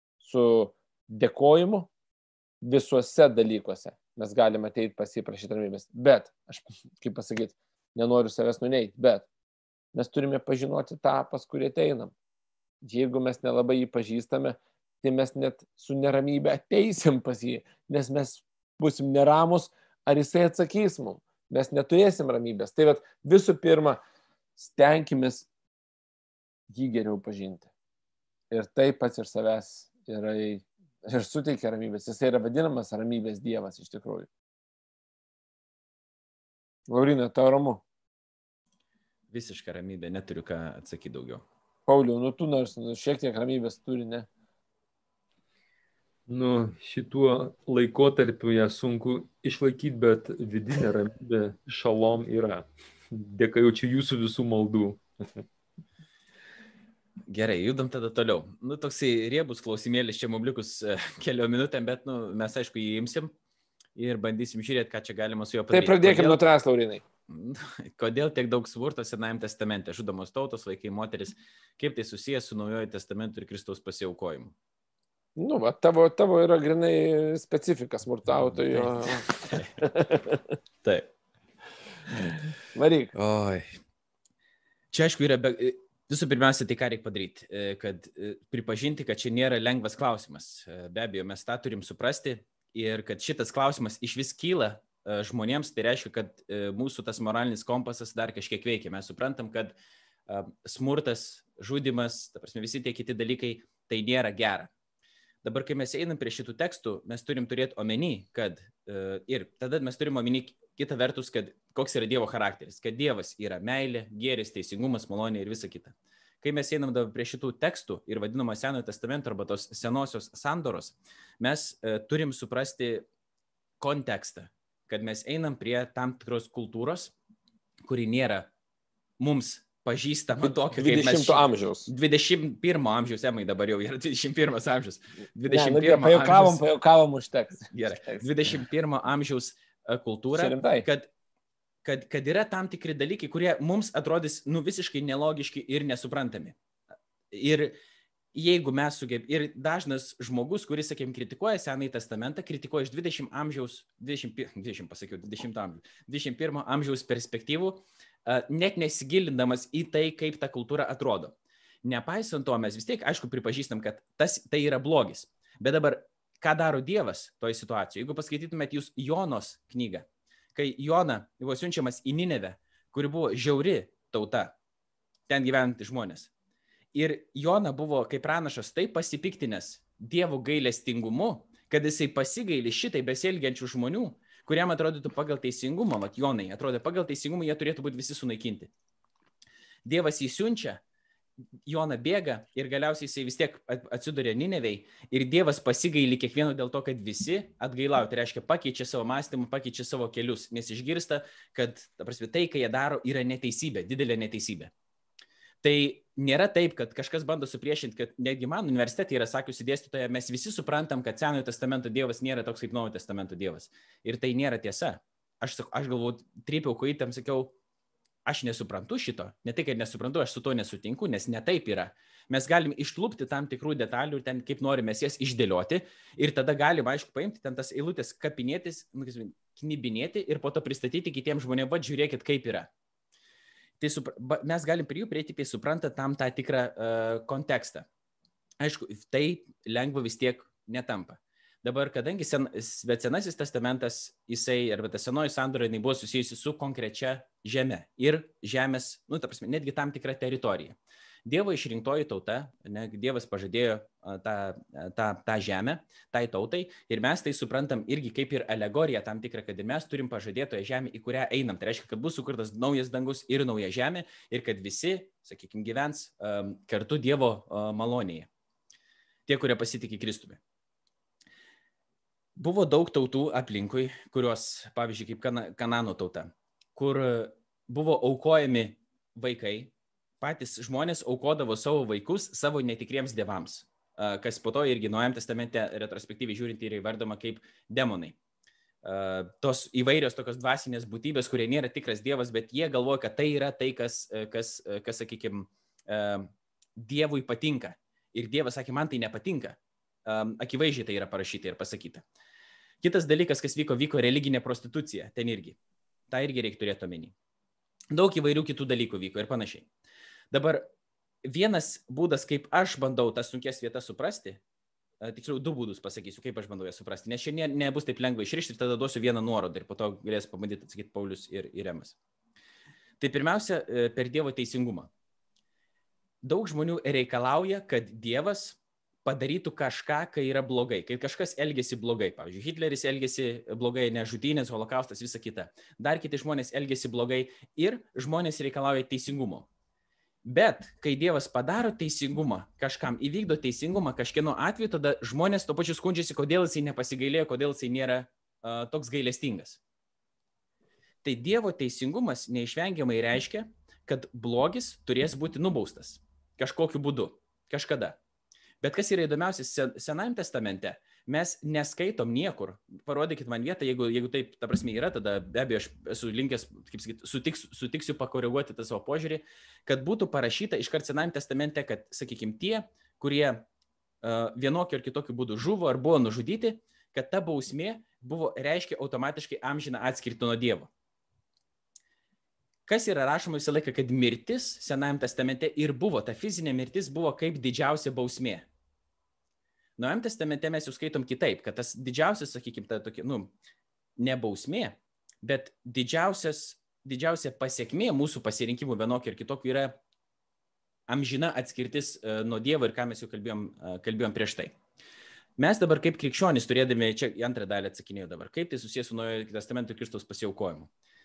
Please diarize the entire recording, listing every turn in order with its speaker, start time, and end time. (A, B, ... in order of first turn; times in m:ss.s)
0:00.2-0:01.9 A
0:02.6-0:09.3 A
0:09.9-0:12.1 A
0:12.8-0:24.0 A
0:24.6-0:25.5 A
0:26.7-0:27.7 A
0:28.5-0:34.3 A
0:36.9-0:37.8 A
0:39.3-0:41.4 B
0:41.9-0:44.3 A
0:46.3-0:55.0 C
0:57.3-1:03.3 B
1:04.0-1:06.4 B
1:05.7-1:07.0 A
1:07.3-1:14.5 B
1:15.4-1:20.4 A
1:18.6-1:19.9 B
1:20.8-1:21.1 B
1:22.7-1:23.1 A
1:23.1-1:23.7 B
1:24.9-1:39.8 B
1:40.3-1:44.7 B
1:45.4-2:03.0 B
2:03.8-2:07.1 B
2:07.8-2:08.5 B
2:09.2-2:16.6 B
2:10.7-2:11.9 A
2:15.5-2:18.2 A
2:17.7-2:21.1 B
2:20.3-2:20.9 A
2:21.8-2:26.6 B
2:27.3-2:27.7 B
2:28.3-2:54.5 B
2:55.3-2:56.3 B
2:56.9-3:08.7 B
3:09.8-3:10.8 B
3:11.6-3:24.7 B
3:25.6-3:37.5 B
3:38.2-3:52.7 B
3:53.8-3:57.8 B
3:58.6-4:28.3 B
4:29.3-4:30.4 B
4:32.4-4:48.2 B
4:48.8-5:02.0 B
5:02.8-5:05.6 B
5:06.1-5:07.1 B
5:07.9-5:09.7 B
5:10.3-5:10.7 B
5:11.2-5:14.4 B
5:15.0-5:22.0 B
5:23.0-5:24.9 B
5:26.2-5:39.5 B
5:40.2-5:49.6 B
5:51.0-5:58.0 B
5:58.6-6:13.4 B
6:14.0-6:20.7 B
6:22.7-6:28.4 B
6:29.8-6:33.3 B
6:34.0-6:39.8 B
6:40.9-6:44.6 B
6:45.4-6:50.7 B